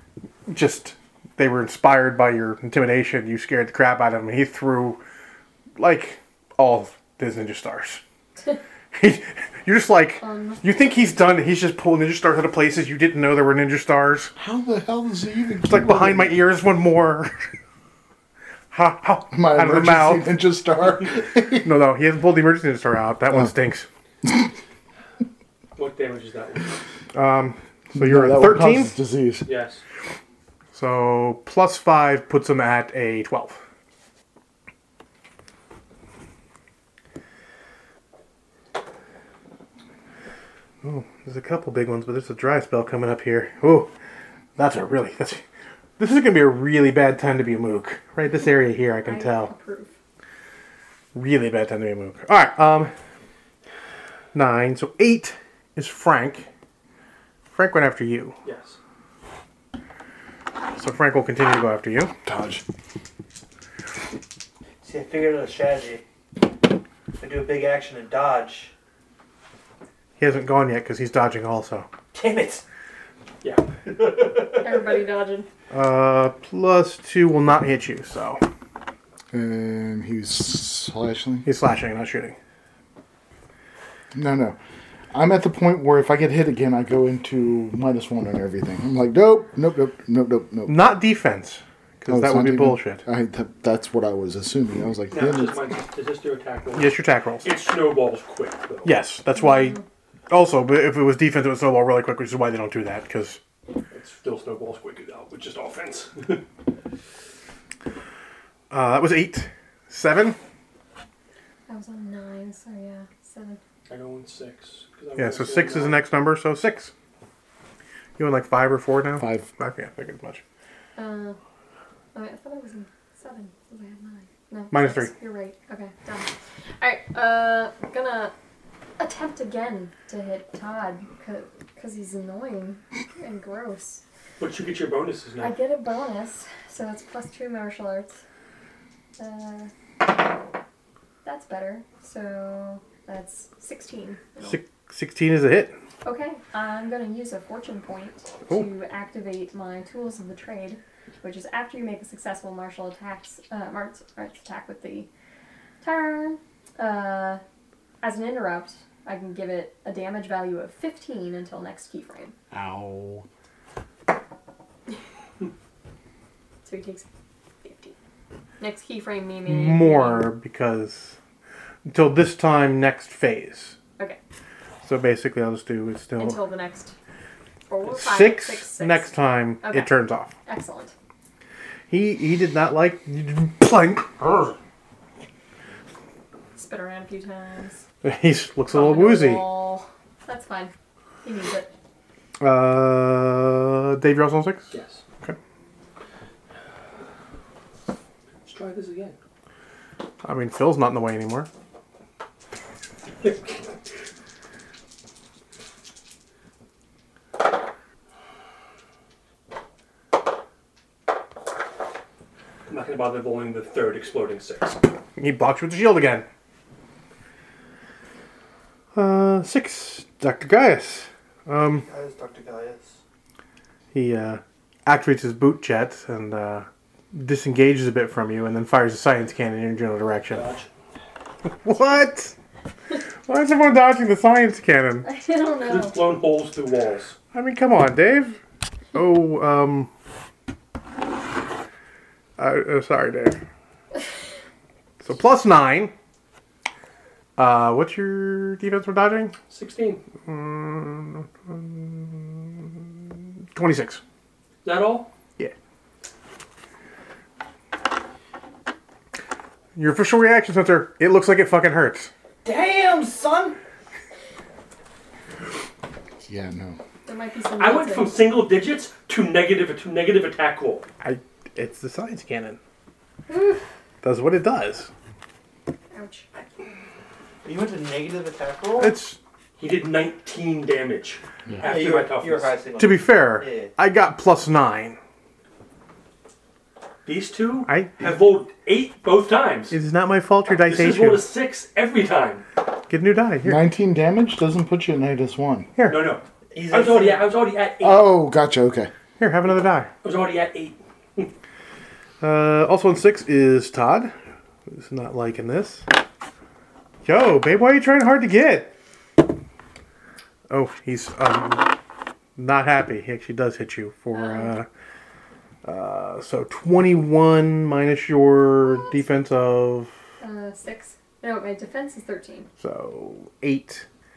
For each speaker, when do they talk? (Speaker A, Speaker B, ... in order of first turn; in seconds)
Speaker A: 0.5-5.0, 5.8-8.0, 8.9-14.3, 15.7-17.4, 18.7-20.3, 21.6-23.9, 27.1-28.9, 30.7-33.6, 40.8-43.9, 44.6-45.4, 46.0-49.5, 51.1-52.9, 54.3-56.5, 57.5-58.4, 60.8-62.1, 70.2-71.9, 75.7-78.4, 81.4-82.3, 90.7-93.0, 96.7-97.5, 98.8-99.8, 100.3-103.4, 108.7-110.4, 115.2-116.9, 118.2-120.4, 124.7-125.1, 144.4-145.7, 169.4-171.2, 171.8-173.8, 174.8-176.4, 177.8-180.3, 181.9-184.6, 188.0-189.4, 192.4-195.3, 200.2-201.5, 215.2-216.2, 218.9-221.9, 223.9-230.4, 231.6-232.3, 233.2-235.1, 237.3-238.4, 238.9-239.9, 242.4-243.4, 245.0-245.9, 247.4-249.3, 250.2-252.7, 253.5-254.0, 259.8-262.1, 271.0-272.6, 274.0-274.9, 278.8-279.2, 282.8-285.0, 287.6-288.1, 289.7-291.2, 292.9-293.6, 295.8-296.1, 299.2-299.9, 302.2-304.1, 304.7-305.9, 307.0-308.7, 310.5-311.7, 312.4-314.7, 315.6-319.9, 322.6-323.9
Speaker B: 10.2-10.6, 49.0-49.9, 74.5-75.5, 99.3-99.8, 111.7-113.6, 121.0-121.4, 122.1-126.3, 126.8-128.3, 129.0-134.0, 135.4-138.2, 139.2-139.7, 141.2-144.6, 146.0-155.1, 155.8-157.4, 158.0-162.3, 166.6-167.1, 167.6-167.9, 168.6-170.3, 176.2-176.9, 177.7-179.1, 179.6-180.9, 186.5-187.8, 188.7-190.7, 191.2-191.7, 235.0-236.0, 267.1-268.1, 273.3-273.6, 275.9-276.3, 314.1-314.5, 320.2-322.5
Speaker C: 14.3-16.4, 19.3-21.7, 27.9-29.5, 62.2-62.6, 79.3-81.5, 84.1-84.6, 85.1-90.8, 92.1-95.7, 119.2-119.5, 162.5-163.2, 266.3-266.8, 281.5-281.7, 293.4-295.7, 297.8-298.9
Speaker D: 25.8-26.8, 29.4-29.8, 58.4-58.8, 95.1-99.0, 103.9-106.4, 113.9-116.0, 134.4-135.6, 194.7-195.0, 198.4-199.1, 203.2-203.7, 212.7-214.8, 230.3-230.7, 235.6-237.2, 249.5-250.0, 254.6-255.1, 267.6-270.9, 279.6-282.5, 287.0-289.8, 290.6-292.4, 295.9-298.1, 300.0-301.3
Speaker E: 64.8-66.0, 67.2-68.7, 72.1-72.6, 73.8-74.9, 221.8-223.0, 262.4-263.6, 277.4-278.9, 281.6-283.7, 296.5-297.3